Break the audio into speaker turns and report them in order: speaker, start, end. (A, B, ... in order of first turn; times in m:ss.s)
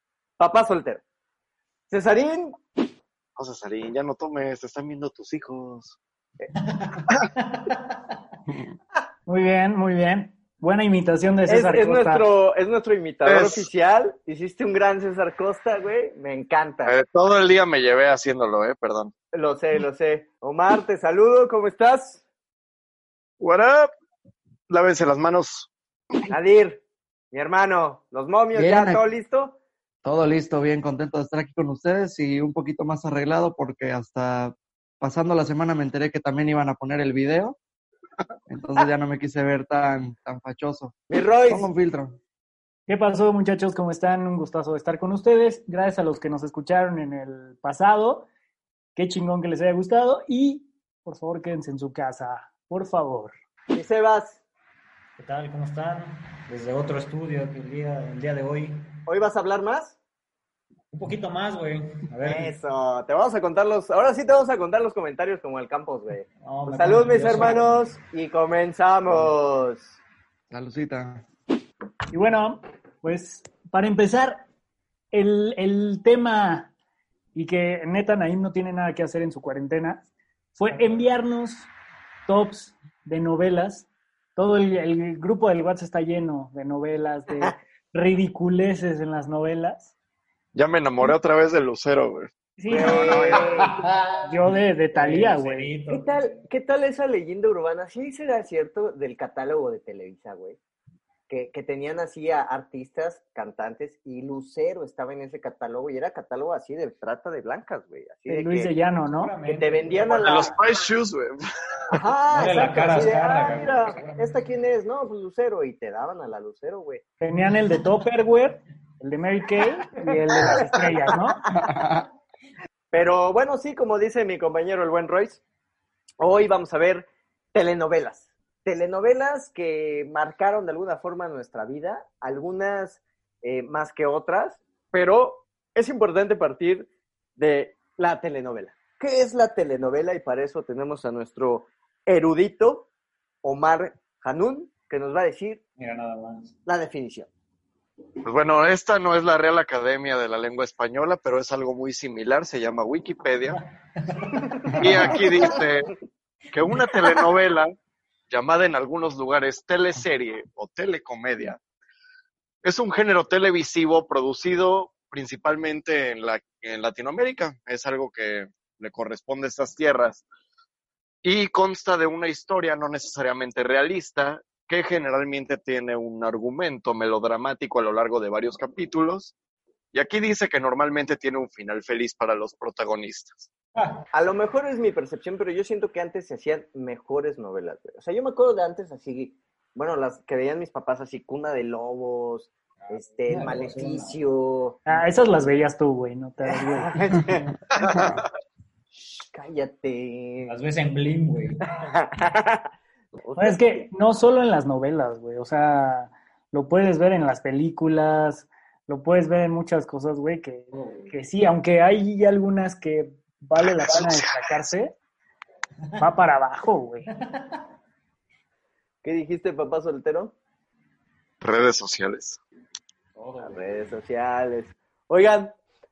0:00.4-0:01.0 A
0:01.9-0:02.6 A
0:03.4-0:06.0 B
0:06.6-0:08.0 C
0:09.3-0:12.3 D
0:11.5-0:17.0 A
0:13.2-0:13.7 B
0:16.9-0:19.1 B
0:19.3-0:22.2 A
0:23.4-0:23.9 B
0:24.7-0:25.7 B
0:26.3-0:29.6 A
0:28.5-0:29.0 E
0:30.0-0:37.6 E
0:38.5-0:40.9 E
0:41.1-0:41.7 A
0:41.5-0:42.2 E
0:42.9-0:48.3 D
0:49.0-0:53.3 D
0:53.7-0:54.4 A
0:55.2-0:58.9 C
0:59.1-1:00.0 A
1:00.9-1:02.5 C
1:02.2-1:10.0 A
1:06.4-1:07.8 C
1:10.5-1:11.2 E
1:12.1-1:14.4 D
1:15.1-1:16.7 D
1:17.3-1:21.7 D
1:20.7-1:21.0 C
1:22.3-1:29.9 D
1:30.5-1:33.5 B
1:32.6-1:33.5 D
1:32.7-1:33.9 A
1:33.5-1:34.2 C
1:34.2-1:35.7 D
1:34.9-1:36.4 C
1:35.9-1:40.6 A
1:41.3-1:48.7 A
1:48.3-1:49.4 D
1:49.1-1:50.6 C
1:49.5-1:50.6 A
1:50.2-1:52.0 B
1:51.9-1:57.0 A
1:52.3-1:54.5 C
1:57.2-2:01.4 D
2:00.1-2:01.7 A
2:01.5-2:02.0 E
2:02.9-2:05.4 A
2:06.2-2:22.9 A
2:23.4-2:25.6 A
2:25.8-2:26.5 C
2:26.7-2:27.3 A
2:28.2-2:33.6 B
2:34.0-2:35.0 C
2:34.4-2:35.6 A
2:34.8-2:35.9 B
2:36.5-2:37.8 B
2:38.3-2:41.6 B
2:42.6-2:50.3 B
2:51.2-2:59.3 B
2:59.9-3:03.5 B
3:03.8-3:04.1 C
3:04.1-3:14.8 A
3:12.8-3:14.2 C
3:14.9-3:16.9 D
3:16.5-3:17.6 A
3:17.7-3:18.3 B
3:17.9-3:18.2 E
3:19.1-3:20.5 A
3:20.5-3:21.7 C
3:21.7-3:22.7 A
3:23.2-3:23.9 A
3:23.4-3:35.0 D
3:30.7-3:31.1 C
3:33.7-3:34.5 B
3:36.0-3:37.1 D
3:37.1-3:37.6 C
3:39.0-3:40.3 A
3:41.4-3:42.4 B
3:43.2-3:43.9 C
3:43.4-3:45.6 A